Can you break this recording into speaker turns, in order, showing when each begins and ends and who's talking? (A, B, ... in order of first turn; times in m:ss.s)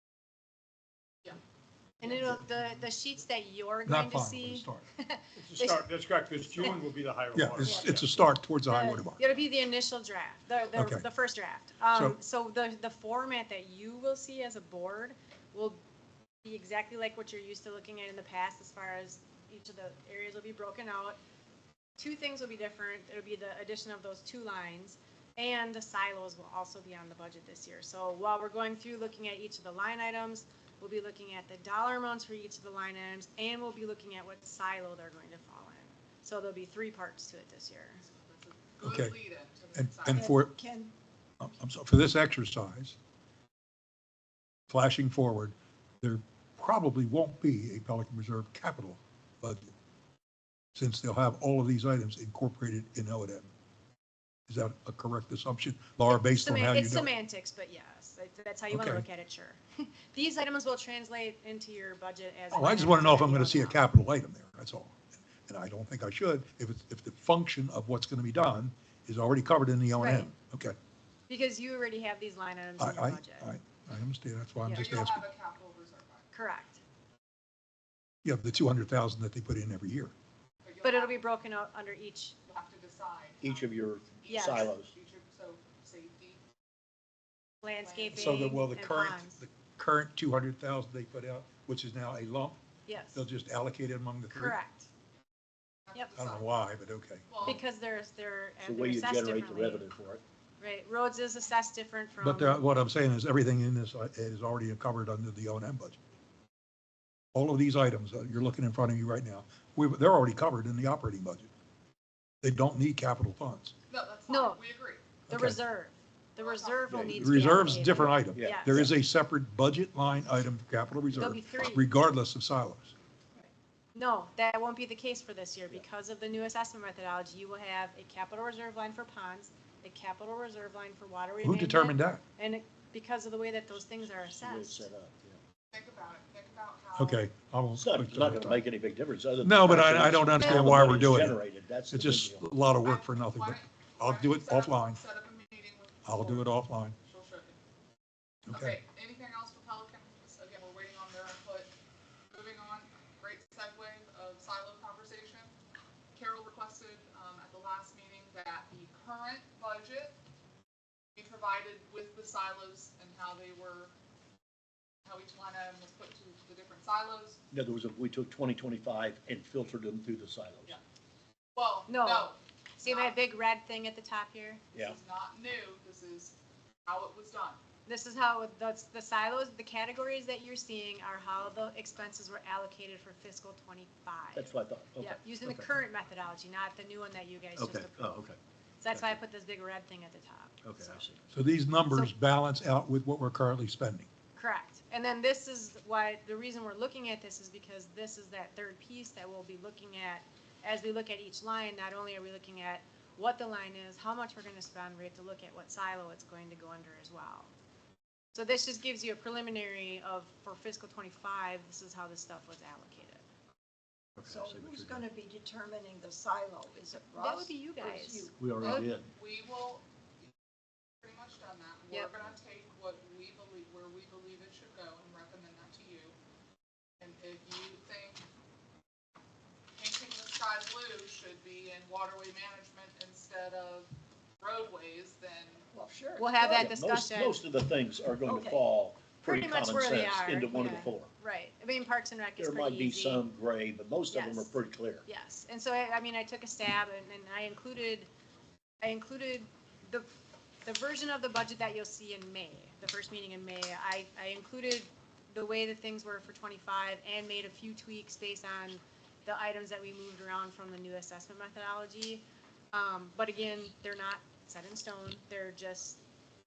0:02.0-0:05.8 A
0:03.8-0:04.8 B
0:05.4-0:08.2 C
0:07.3-0:09.2 B
0:07.6-0:07.9 A
0:08.7-0:15.8 A
0:10.7-0:11.0 B
0:11.9-0:12.2 B
0:16.4-0:21.2 A
0:22.0-0:38.0 A
0:38.0-0:40.3 D
0:38.8-0:39.2 B
0:39.7-0:40.5 B
0:40.1-0:40.9 E
0:41.4-0:43.0 B
0:44.7-0:49.7 B
0:50.7-0:53.5 B
0:54.5-0:57.1 B
0:56.1-1:03.8 A
0:58.7-0:59.0 B
1:02.5-1:10.7 B
1:09.9-1:10.3 A
1:11.3-1:13.5 A
1:12.8-1:15.2 B
1:14.6-1:14.9 A
1:14.7-1:16.3 D
1:16.3-1:16.8 A
1:18.2-1:20.1 B
1:20.6-1:21.2 D
1:20.8-1:22.3 A
1:22.5-1:26.4 D
1:23.4-1:24.9 F
1:24.3-1:24.7 A
1:27.6-1:29.4 A
1:27.8-1:28.4 D
1:28.1-1:32.6 B
1:32.9-1:33.2 A
1:33.1-1:34.6 B
1:34.3-1:34.9 A
1:35.9-1:36.4 D
1:36.1-1:37.6 B
1:37.3-1:37.6 D
1:37.4-1:39.8 A
1:38.6-1:40.2 F
1:40.6-1:42.6 A
1:42.2-1:46.0 B
1:47.3-1:51.5 B
1:52.4-1:53.7 B
1:53.9-1:55.0 D
1:54.3-1:54.6 A
1:55.3-1:55.6 B
1:55.3-1:58.8 A
1:56.4-1:57.1 D
1:56.9-1:57.3 F
1:57.0-2:02.9 B
1:58.3-1:58.9 F
2:01.2-2:01.9 A
2:03.9-2:14.9 A
2:11.4-2:12.2 B
2:14.3-2:15.4 F
2:15.7-2:17.2 D
2:17.0-2:18.6 B
2:17.7-2:22.5 F
2:19.4-2:21.4 B
2:21.9-2:25.0 B
2:22.8-2:27.6 D
2:26.0-2:27.0 B
2:28.5-2:28.8 B
2:28.5-2:31.7 D
2:32.3-2:35.5 D
2:36.1-2:40.2 D
2:41.2-2:43.9 D
2:45.0-2:47.4 D
2:47.5-2:50.8 F
2:51.5-2:53.1 D
2:51.9-2:54.6 A
2:54.7-2:55.0 F
2:54.7-2:56.3 D
2:56.8-2:57.6 D
2:57.8-3:08.1 A
3:04.3-3:05.7 F
3:07.6-3:08.4 F
3:08.8-3:11.0 A
3:10.6-3:11.2 F
3:11.3-3:14.1 B
3:14.4-3:27.5 A
3:28.3-3:33.2 A
3:34.2-3:35.0 F
3:34.2-3:38.4 E
3:37.1-3:38.3 A
3:38.4-3:39.1 F
3:38.6-3:40.3 D
3:41.0-3:46.2 D
3:47.0-3:48.2 D
3:49.7-3:55.7 D
3:55.7-3:56.5 E
3:56.2-3:57.4 A
3:56.4-4:01.1 F
3:58.2-3:58.6 E
3:59.2-4:03.3 A
4:02.4-4:05.0 F
4:04.1-4:08.1 A
4:08.8-4:10.1 A
4:10.6-4:26.0 A